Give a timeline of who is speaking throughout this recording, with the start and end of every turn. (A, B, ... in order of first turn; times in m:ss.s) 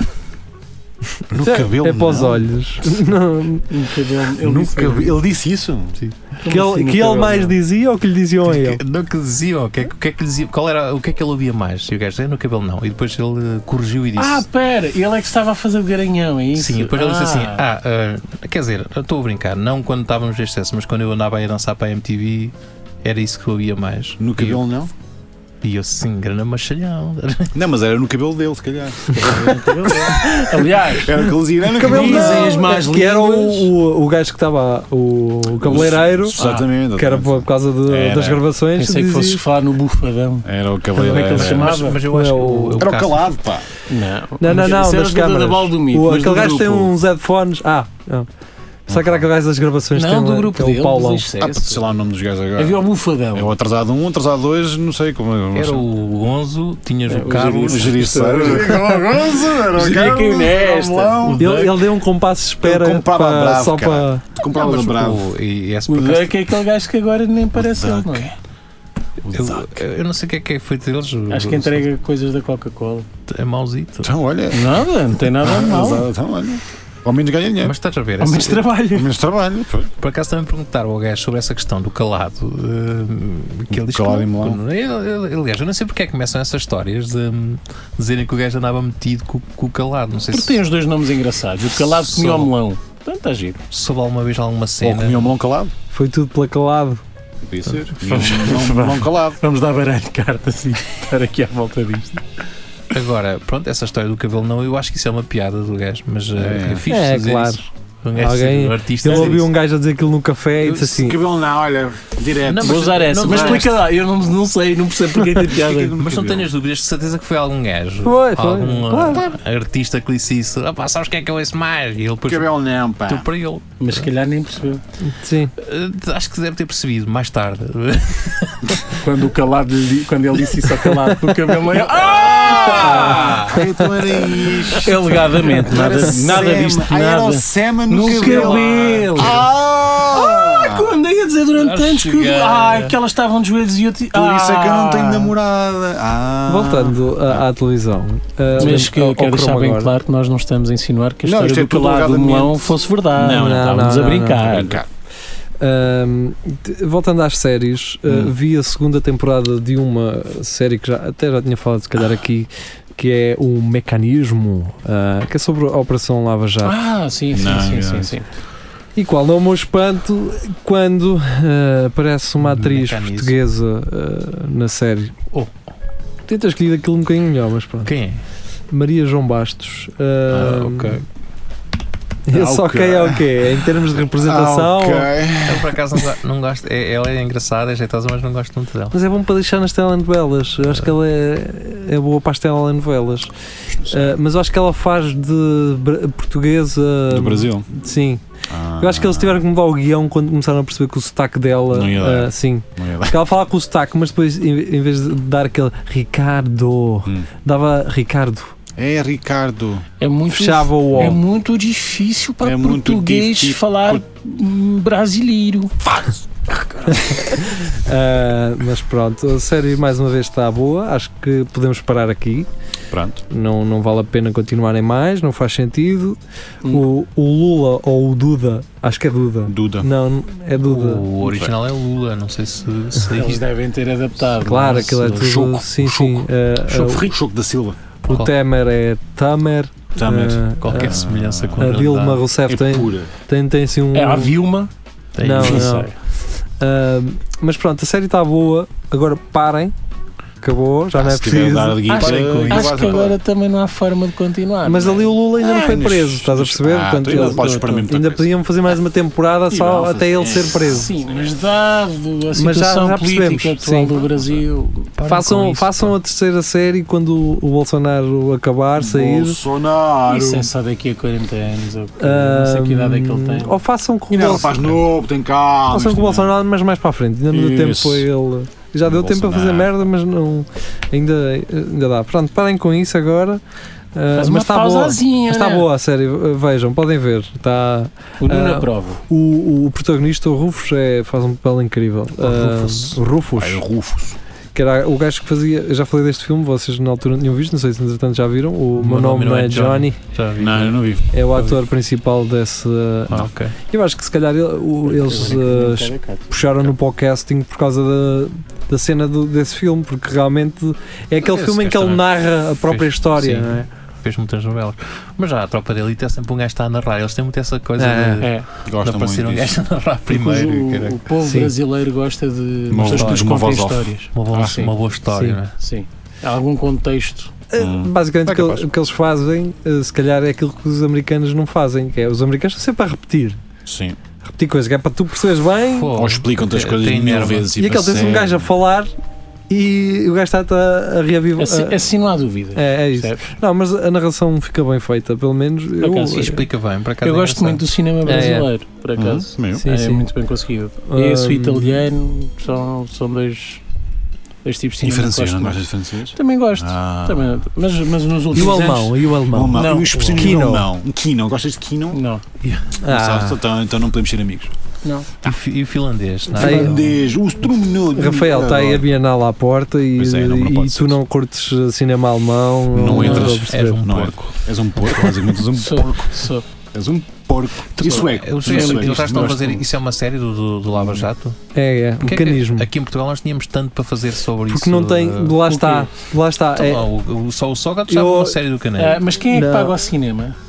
0:01.3-0:02.4 A
0:01.4-0:03.7 B
0:03.7-0:05.2 C
0:04.4-0:05.9 A
0:06.4-0:07.6 C
0:06.5-0:08.8 B
0:08.4-0:14.4 D
0:14.2-0:17.6 C
0:16.5-0:24.6 D
0:24.2-0:24.9 A
0:25.6-0:27.5 D
0:27.5-0:30.3 A
0:29.1-0:31.2 C
0:30.2-0:30.5 B
0:31.0-0:32.6 A
0:31.7-0:36.4 B
0:31.8-0:33.7 C
0:35.6-0:38.5 A
0:36.4-0:36.7 C
0:36.9-0:39.4 B
0:38.7-0:42.0 C
0:40.4-0:41.9 A
0:41.1-0:43.3 D
0:42.0-0:42.8 B
0:42.8-0:43.7 A
0:43.9-0:46.9 C
0:44.4-0:48.3 B
0:48.9-0:51.2 B
0:48.9-0:49.2 A
0:49.9-0:51.8 C
0:51.4-0:55.8 A
0:52.6-0:53.5 C
0:55.5-0:58.2 D
0:57.1-0:59.1 C
0:57.6-1:01.6 A
0:59.7-1:01.5 C
1:01.2-1:01.7 D
1:01.4-1:04.2 B
1:02.6-1:05.2 A
1:04.5-1:06.4 D
1:05.9-1:08.3 C
1:07.5-1:08.4 A
1:09.2-1:09.7 A
1:09.3-1:11.8 D
1:11.3-1:13.1 C
1:13.3-1:14.1 D
1:14.0-1:17.7 A
1:14.5-1:16.1 C
1:17.6-1:18.7 D
1:18.2-1:19.1 C
1:18.9-1:19.9 A
1:20.0-1:30.6 D
1:23.7-1:24.6 A
1:30.3-1:33.6 C
1:32.0-1:32.5 D
1:33.7-1:35.3 D
1:34.8-1:35.7 A
1:35.9-1:37.0 B
1:37.4-1:39.4 A
1:38.0-1:42.2 C
1:42.9-1:49.4 D
1:46.3-1:46.8 A
1:46.9-1:51.2 B
1:49.1-1:49.4 C
1:50.6-1:53.7 A
1:52.4-1:53.8 D
1:52.6-1:55.9 C
1:55.4-1:56.5 A
1:56.0-2:02.5 D
1:58.0-1:59.2 B
2:02.2-2:03.3 A
2:03.0-2:04.1 D
2:03.8-2:04.8 C
2:05.0-2:05.5 B
2:05.6-2:09.0 D
2:09.0-2:13.6 C
2:11.8-2:21.0 A
2:12.7-2:13.6 D
2:14.2-2:19.5 C
2:15.7-2:16.0 D
2:18.2-2:19.4 D
2:20.1-2:25.3 C
2:21.5-2:23.0 D
2:24.1-2:27.4 A
2:26.4-2:29.9 B
2:28.6-2:34.8 C
2:31.2-2:34.9 A
2:33.3-2:34.5 B
2:35.6-2:46.8 B
2:46.6-2:48.3 C
2:47.3-2:48.2 A
2:49.0-2:55.2 B
2:52.4-2:53.4 D
2:56.3-2:57.9 B
2:57.8-2:58.2 D
2:58.7-3:01.0 B
3:00.3-3:01.0 D
3:02.3-3:05.1 B
3:02.3-3:03.5 A
3:04.2-3:06.0 A
3:05.4-3:08.9 D
3:08.9-3:13.3 B
3:13.8-3:14.2 A
3:13.9-3:18.2 B
3:17.1-3:17.7 A
3:18.5-3:19.4 A
3:18.8-3:28.5 B
3:21.7-3:23.2 A
3:28.8-3:29.8 A
3:30.0-3:35.7 C
3:30.3-3:31.2 B
3:32.4-3:34.0 A
3:35.8-3:36.2 A
3:36.9-3:42.5 B
3:42.9-3:43.2 A
3:43.3-3:51.0 B
3:49.5-3:49.9 A
3:50.6-3:53.4 D
3:51.2-3:51.5 A
3:53.1-3:55.4 C
3:54.4-3:57.1 B
3:55.0-3:57.8 A
3:58.0-4:01.0 B
3:58.1-3:58.3 D
4:00.0-4:01.8 A
4:00.6-4:02.2 D
4:01.6-4:04.3 B
4:02.5-4:03.1 A
4:03.9-4:04.7 C
4:05.2-4:05.8 D
4:05.2-4:05.9 B
4:05.4-4:05.9 C
4:06.6-4:09.7 B
4:10.4-4:11.8 B
4:10.9-4:13.2 A
4:11.9-4:15.1 C
4:11.9-4:13.0 D
4:14.6-4:20.9 B
4:15.4-4:18.3 A
4:17.1-4:17.7 C
4:19.5-4:21.0 A
4:19.5-4:24.9 C
4:22.3-4:24.0 B
4:25.0-4:25.9 D
4:25.0-4:29.4 B
4:28.7-4:30.5 A
4:30.1-4:33.6 C
4:32.0-4:34.5 B
4:34.1-4:36.3 A
4:35.7-4:43.4 B
4:37.3-4:38.1 A
4:38.8-4:39.7 A
4:43.9-4:53.6 B
4:44.1-4:45.7 C
4:48.2-4:49.0 C
4:52.2-4:52.9 D
4:53.3-4:54.2 A
4:54.5-5:00.0 B
4:58.8-5:00.8 D
5:00.4-5:01.0 A
5:01.1-5:13.7 B
5:01.3-5:01.6 D
5:03.1-5:03.5 D
5:04.8-5:06.3 C
5:11.2-5:21.0 D
5:17.8-5:18.2 B
5:18.2-5:18.5 C
5:18.6-5:19.6 A
5:20.1-5:24.7 C
5:21.2-5:21.5 B
5:22.7-5:24.6 A
5:22.9-5:23.4 D
5:24.1-5:25.5 D
5:25.1-5:25.4 B
5:25.6-5:27.3 C
5:27.5-5:33.4 B
5:27.6-5:28.7 A
5:33.6-5:34.0 A
5:34.2-5:35.9 B
5:35.8-5:37.5 D
5:35.9-5:38.5 A
5:37.6-5:38.9 B
5:39.5-5:41.8 B
5:41.4-5:43.3 C
5:42.6-5:46.4 B
5:45.8-5:46.4 C
5:46.2-5:47.6 D
5:47.0-5:53.6 C
5:48.0-5:48.5 B
5:48.9-5:49.6 A
5:49.5-5:50.1 B
5:50.9-5:51.8 B
5:54.4-5:55.6 C
5:54.8-5:57.3 A
5:56.2-5:59.0 C
5:58.3-6:00.7 B
5:59.3-6:02.0 A
5:59.5-6:00.2 C
6:01.9-6:02.2 C
6:02.5-6:03.4 B
6:02.8-6:04.5 A
6:04.8-6:05.1 C
6:05.2-6:07.0 D
6:06.3-6:08.9 A
6:06.4-6:06.7 B
6:07.9-6:13.8 B
6:10.0-6:11.0 A
6:12.7-6:19.6 A
6:12.9-6:14.3 D
6:15.6-6:16.4 C
6:17.8-6:21.4 D
6:17.8-6:19.6 C
6:20.7-6:21.1 A
6:21.5-6:22.7 B
6:22.0-6:25.4 D
6:24.5-6:26.8 B
6:25.5-6:25.9 C
6:26.5-6:29.0 D
6:27.9-6:28.4 B
6:28.8-6:30.4 C
6:29.3-6:29.7 B